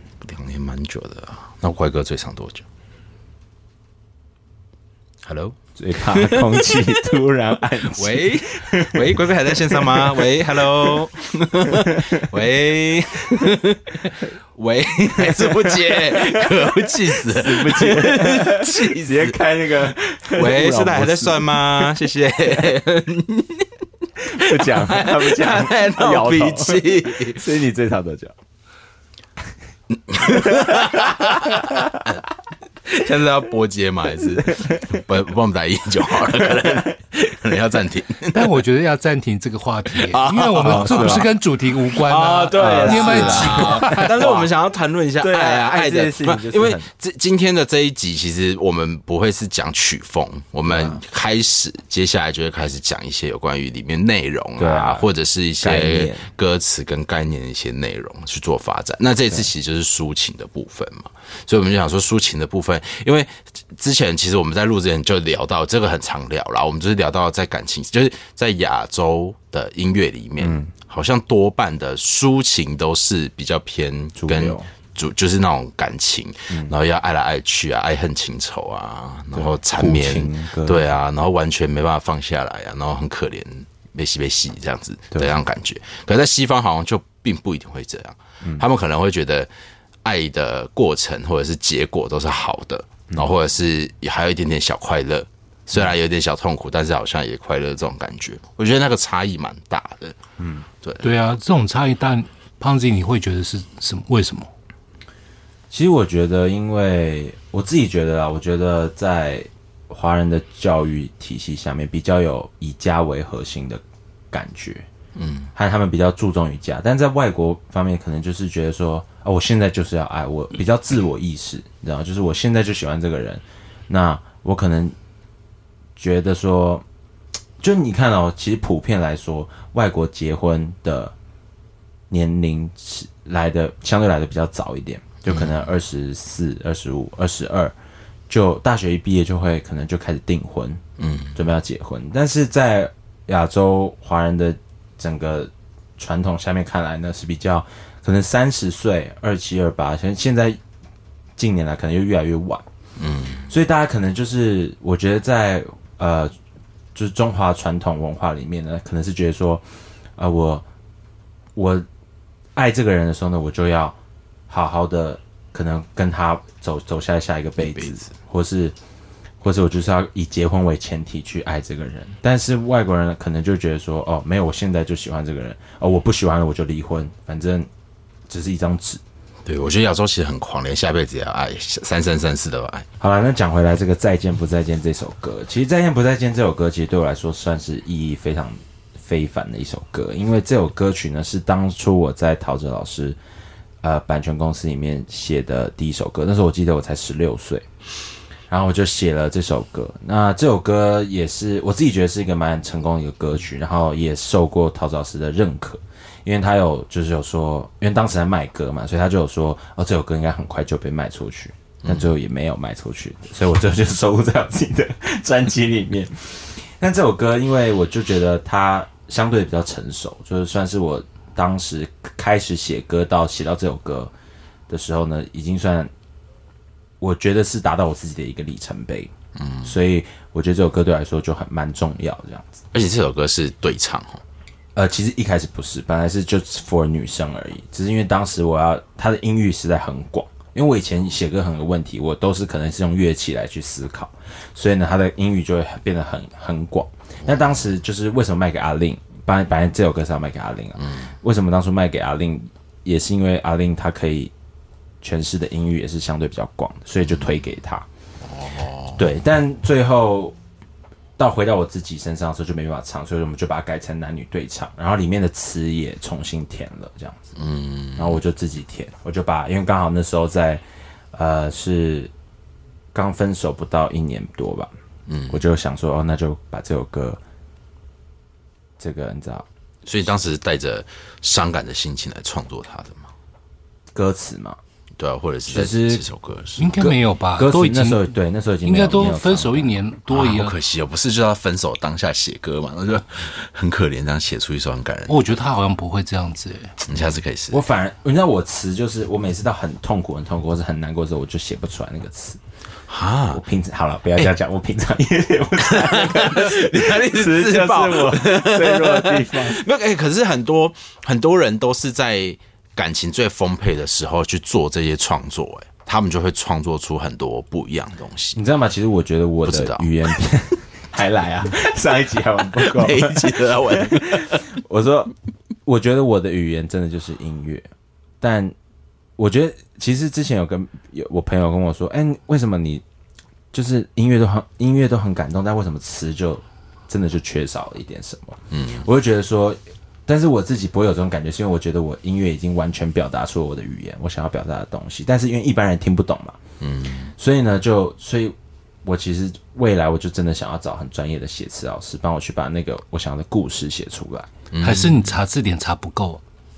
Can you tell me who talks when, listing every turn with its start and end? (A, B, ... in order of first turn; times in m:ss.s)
0:00.2-0:02.6 A
0:05.2-0:07.0 A
0:05.8-0:10.2 B
0:07.9-0:19.4 A
0:11.9-0:12.2 B
0:16.1-0:16.5 B
0:17.2-0:21.8 B
0:20.3-0:23.7 A
0:24.2-0:28.4 B
0:24.4-0:27.4 A
0:30.1-0:32.2 A
0:30.3-0:32.0 B
0:32.8-0:38.6 A
0:38.3-0:44.3 C
0:39.9-0:41.4 A
0:40.6-0:41.3 B
0:41.9-1:29.5 A
0:42.5-0:44.5 B
0:45.2-0:46.9 B
0:50.7-0:51.0 B
0:54.6-0:55.1 B
0:55.6-0:56.3 B
1:10.4-1:10.7 B
1:14.2-1:14.7 B
1:19.3-1:20.9 B
1:30.0-1:40.2 A
1:40.4-1:40.7 B
1:40.8-1:41.1 A
1:41.0-1:44.5 C
1:45.7-1:54.9 B
1:55.2-1:55.5 A
1:55.6-2:05.0 B
2:06.0-2:06.8 B
2:07.6-2:11.1 B
2:12.1-2:17.8 B
2:15.3-2:15.6 A
2:18.3-2:20.8 B
2:21.0-2:21.4 A
2:21.4-2:30.6 B
2:31.4-2:32.6 B
2:33.0-2:33.5 A
2:33.5-2:36.3 B
2:37.0-2:39.6 B
2:40.2-2:40.6 B
2:41.6-2:41.8 B
2:42.6-2:44.0 B
2:44.5-2:48.8 B
2:47.6-2:48.1 A
2:49.4-2:57.7 B
2:58.3-2:59.0 B
2:59.4-3:02.9 A
3:03.0-3:13.2 B
3:13.8-3:17.7 B
3:18.5-3:44.1 B
3:31.8-3:32.1 A
3:44.7-3:45.9 B
3:47.0-3:49.1 B
3:49.4-3:49.8 A
3:49.6-3:52.6 B
3:52.7-3:54.2 A
3:54.8-4:14.3 B
4:10.8-4:11.1 A
4:15.0-4:17.9 B
4:18.2-4:19.0 A
4:19.0-4:20.4 B
4:21.2-4:27.4 B
4:27.4-4:28.2 A
4:28.0-4:32.1 B
4:32.9-4:34.7 B
4:35.1-4:35.4 A
4:35.3-4:37.2 B
4:38.8-4:39.5 B
4:39.8-4:43.1 A
4:43.9-4:44.6 B
4:45.0-4:46.8 A
4:45.5-4:46.0 B
4:46.6-4:50.6 C
4:46.8-4:49.8 B
4:50.1-4:55.3 A
4:55.1-4:56.8 C
4:56.9-4:57.6 A
4:57.5-5:02.4 B
5:02.9-5:03.4 A
5:03.3-5:09.6 B
5:05.6-5:18.4 A
5:18.4-5:25.1 B
5:19.4-5:20.1 A
5:22.5-5:24.5 A
5:25.6-5:27.7 B
5:28.2-5:28.6 B
5:29.2-5:32.8 B
5:33.5-5:46.4 B
5:38.5-5:38.8 A
5:46.6-5:47.1 A
5:47.2-5:54.3 B
5:54.5-5:55.2 A
5:54.6-5:56.2 C